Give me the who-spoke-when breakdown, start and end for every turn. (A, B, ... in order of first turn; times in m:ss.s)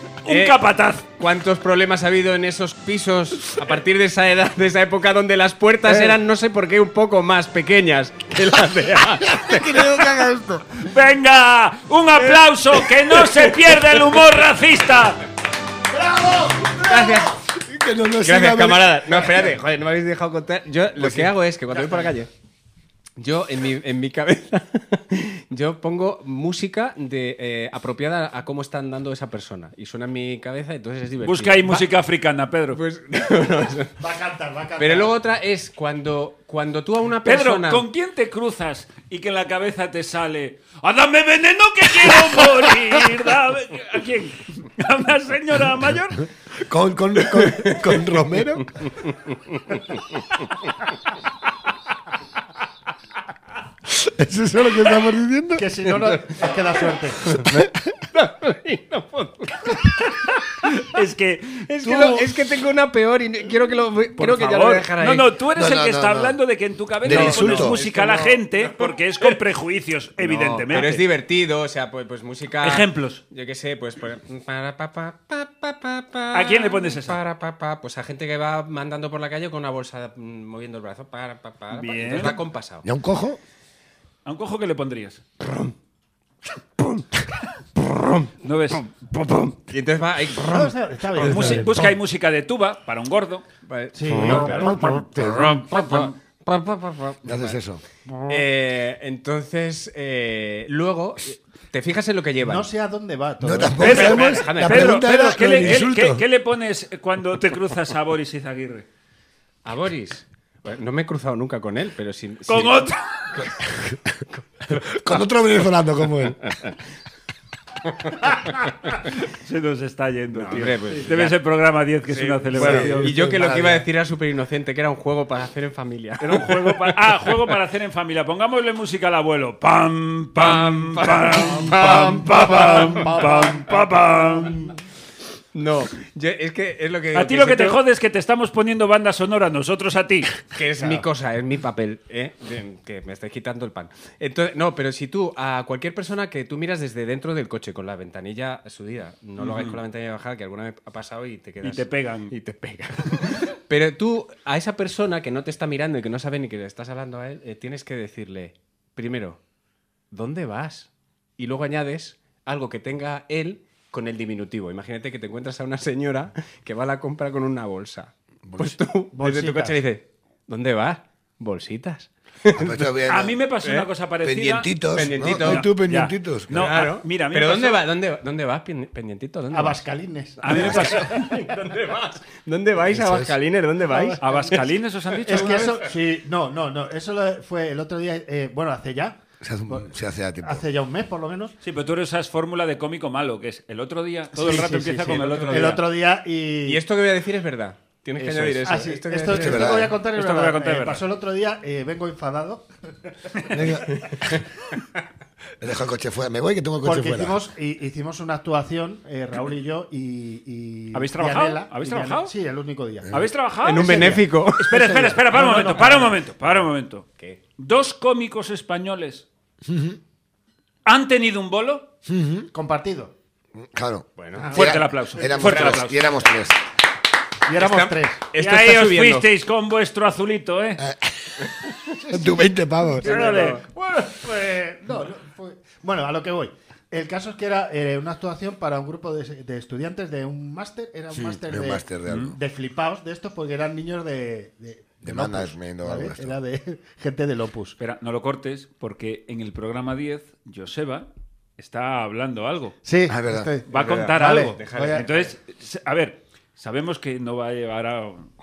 0:00.2-0:01.0 A
0:00.2-0:00.6 B
0:01.2-0:09.8 B
0:09.2-0:10.8 C
0:10.8-0:15.2 A
0:15.9-0:19.5 C
0:16.8-0:17.3 B
0:18.2-0:22.3 B
0:21.0-0:21.3 C
0:21.7-0:22.1 D
0:23.2-0:31.9 B
0:31.2-0:32.8 A
0:32.7-0:34.0 B
0:34.0-0:35.1 D
0:34.8-0:37.8 B
0:37.2-0:46.2 A
0:46.6-0:48.9 C
0:49.0-0:50.0 B
0:53.8-0:55.6 C
0:55.6-0:57.3 D
0:57.4-0:57.8 C
0:58.1-0:59.9 B
1:00.7-1:02.2 A
1:01.7-1:05.3 B
1:04.2-1:11.1 A
1:05.5-1:06.4 C
1:07.0-1:07.8 C
1:07.1-1:09.4 B
1:10.3-1:22.8 B
1:10.3-1:10.6 C
1:12.6-1:13.2 A
1:16.3-1:17.2 A
1:21.7-1:22.4 A
1:22.8-1:23.4 C
1:24.2-1:25.2 A
1:25.4-1:25.7 B
1:27.8-1:31.6 B
1:28.4-1:28.9 A
1:30.4-1:31.9 D
1:31.2-1:33.4 A
1:33.7-1:37.6 B
1:33.9-1:35.0 D
1:34.3-1:35.8 C
1:35.2-1:36.1 A
1:37.2-1:37.8 C
1:38.1-1:38.4 D
1:38.3-1:42.7 B
1:42.4-1:43.8 D
1:43.4-1:46.2 C
1:43.8-1:48.8 A
1:43.8-1:45.0 B
1:49.6-1:52.8 B
1:52.5-1:53.5 A
1:53.5-1:54.0 C
1:54.4-1:55.0 B
1:54.7-1:56.4 C
1:58.0-1:58.3 B
1:59.2-2:03.1 A
2:00.3-2:01.4 B
2:02.1-2:07.4 B
2:02.6-2:03.9 C
2:06.2-2:14.7 A
2:10.4-2:13.4 B
2:12.6-2:13.6 D
2:15.5-2:17.8 B
2:17.1-2:20.4 A
2:20.5-2:39.4 B
2:29.4-2:29.8 A
2:31.6-2:32.3 A
2:40.1-2:52.8 B
2:48.4-2:48.8 C
2:49.1-2:49.8 D
2:52.5-2:53.4 C
2:53.1-2:54.7 A
2:53.6-2:53.9 B
2:54.2-2:56.6 C
2:54.9-2:55.7 B
2:55.2-2:57.8 A
2:56.5-2:59.8 B
2:59.5-3:01.3 D
3:00.4-3:01.2 A
3:00.4-3:04.2 B
3:02.8-3:03.4 C
3:03.8-3:04.6 D
3:04.2-3:05.8 A
3:05.2-3:09.2 D
3:09.4-3:10.6 C
3:10.4-3:11.5 D
3:11.6-3:15.8 A
3:14.3-3:16.8 D
3:15.1-3:15.8 B
3:16.6-3:19.9 B
3:18.3-3:22.7 D
3:19.3-3:20.0 C
3:20.0-3:21.0 A
3:23.5-3:24.3 C
3:23.9-3:24.3 B
3:25.6-3:27.4 C
3:26.8-3:33.1 D
3:30.9-3:32.3 A
3:33.0-3:33.3 C
3:33.1-3:37.0 A
3:33.6-3:34.8 B
3:33.7-3:36.2 D
3:37.6-3:39.3 A
3:39.6-3:40.0 C
3:40.8-3:41.9 A
3:42.0-3:42.5 C
3:42.5-3:43.1 D
3:43.6-3:46.6 C
3:44.2-3:44.6 B
3:44.4-3:45.4 D
3:44.5-3:46.1 A
3:45.4-3:45.8 B
3:47.5-3:48.2 D
3:47.6-3:49.3 B
3:48.4-3:50.8 A
3:50.8-3:51.5 C
3:52.0-3:52.4 D
3:52.1-3:53.2 C
3:53.0-4:07.8 D
3:53.0-3:53.6 A
3:53.0-3:53.6 B
4:01.1-4:02.4 C
4:02.1-4:02.3 A
4:05.0-4:06.4 C
4:07.8-4:11.1 A
4:11.6-4:12.7 A
4:12.8-4:15.1 D
4:13.1-4:13.5 C
4:13.7-4:15.3 B
4:13.7-4:18.3 A